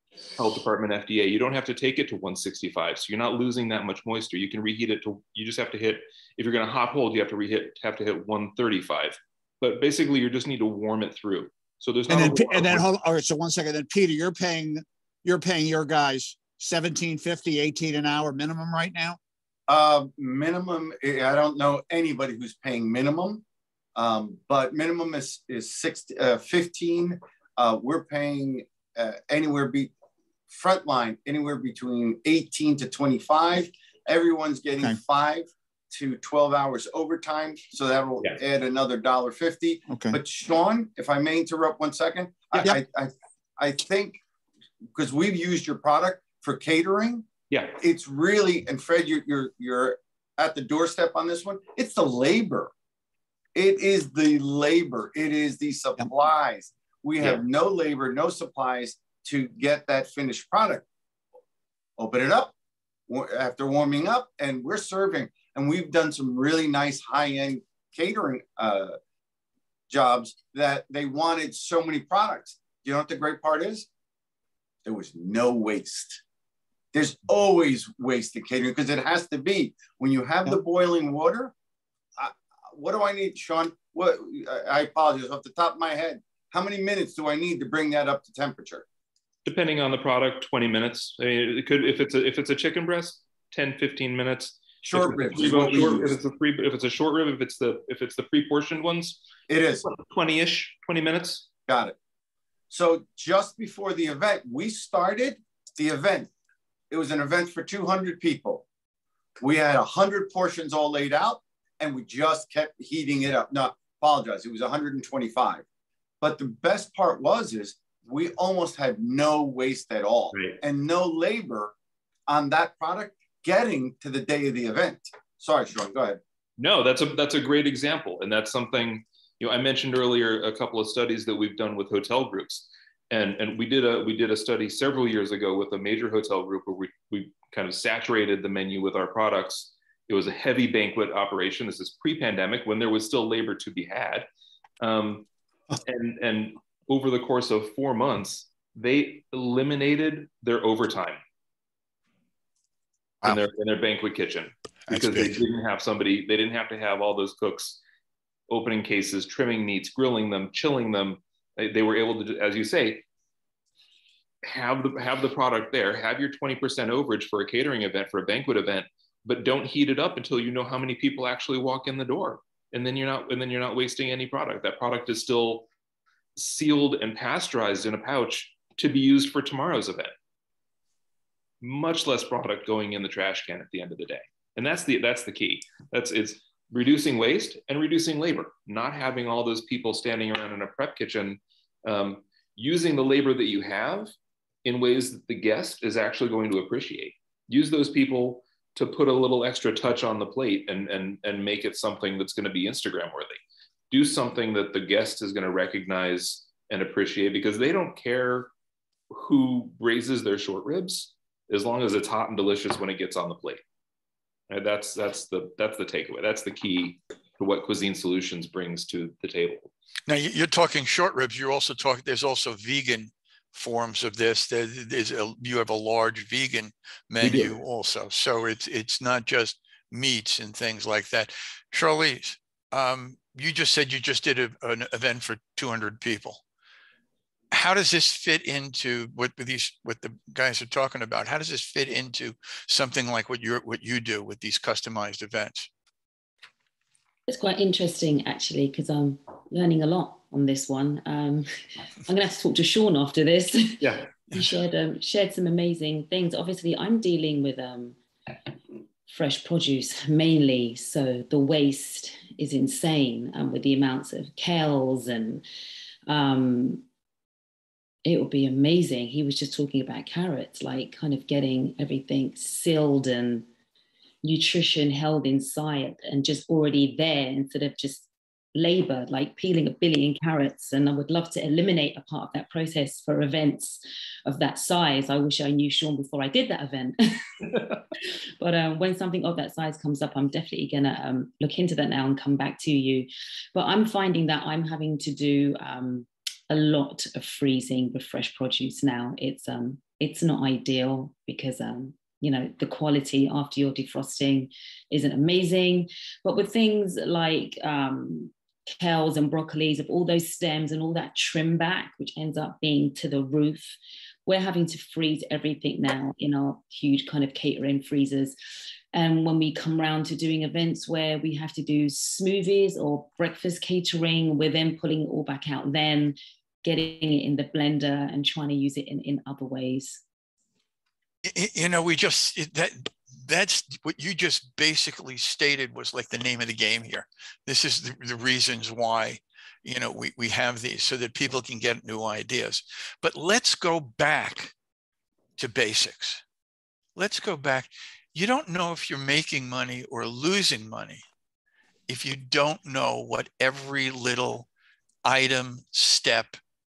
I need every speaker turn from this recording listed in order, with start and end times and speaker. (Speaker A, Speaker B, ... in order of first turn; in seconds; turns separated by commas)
Speaker A: 0.3-12.9, Speaker B: 12.1-19.2, Speaker C: 19.7-23.4, Speaker C: 24.0-29.9, Speaker C: 30.5-44.2, Speaker B: 39.9-40.2, Speaker C: 45.0-47.3, Speaker A: 47.5-47.8, Speaker C: 47.8-52.7, Speaker C: 53.5-60.9, Speaker C: 62.0-62.5, Speaker C: 63.1-69.0, Speaker C: 69.9-73.9, Speaker C: 74.8-76.2, Speaker C: 76.9-81.5, Speaker C: 82.2-88.8, Speaker A: 89.5-99.2, Speaker C: 94.8-96.2, Speaker C: 99.5-99.8, Speaker A: 99.8-101.5, Speaker C: 101.7-102.0, Speaker C: 102.7-106.3, Speaker C: 106.9-108.7, Speaker C: 109.4-115.6, Speaker C: 116.2-121.7, Speaker A: 120.3-120.6, Speaker C: 122.3-126.2, Speaker A: 126.6-144.3, Speaker A: 144.8-145.3, Speaker A: 145.8-151.2, Speaker A: 153.2-157.8, Speaker D: 154.9-155.4, Speaker A: 158.5-163.0, Speaker A: 164.4-175.7, Speaker A: 176.4-180.1, Speaker A: 181.6-194.1, Speaker A: 194.7-203.4, Speaker A: 203.9-208.5, Speaker A: 209.1-213.6, Speaker A: 214.5-219.7, Speaker D: 220.1-236.4, Speaker A: 227.2-227.6, Speaker D: 237.5-245.7, Speaker E: 247.3-251.5, Speaker E: 252.1-258.0, Speaker E: 259.1-265.4, Speaker E: 266.1-266.8, Speaker E: 268.1-273.5, Speaker E: 274.2-313.7, Speaker E: 314.3-318.4, Speaker E: 318.9-330.0, Speaker D: 331.3-344.5, Speaker D: 345.4-346.2, Speaker D: 347.0-351.0, Speaker D: 351.9-354.5, Speaker D: 355.0-356.4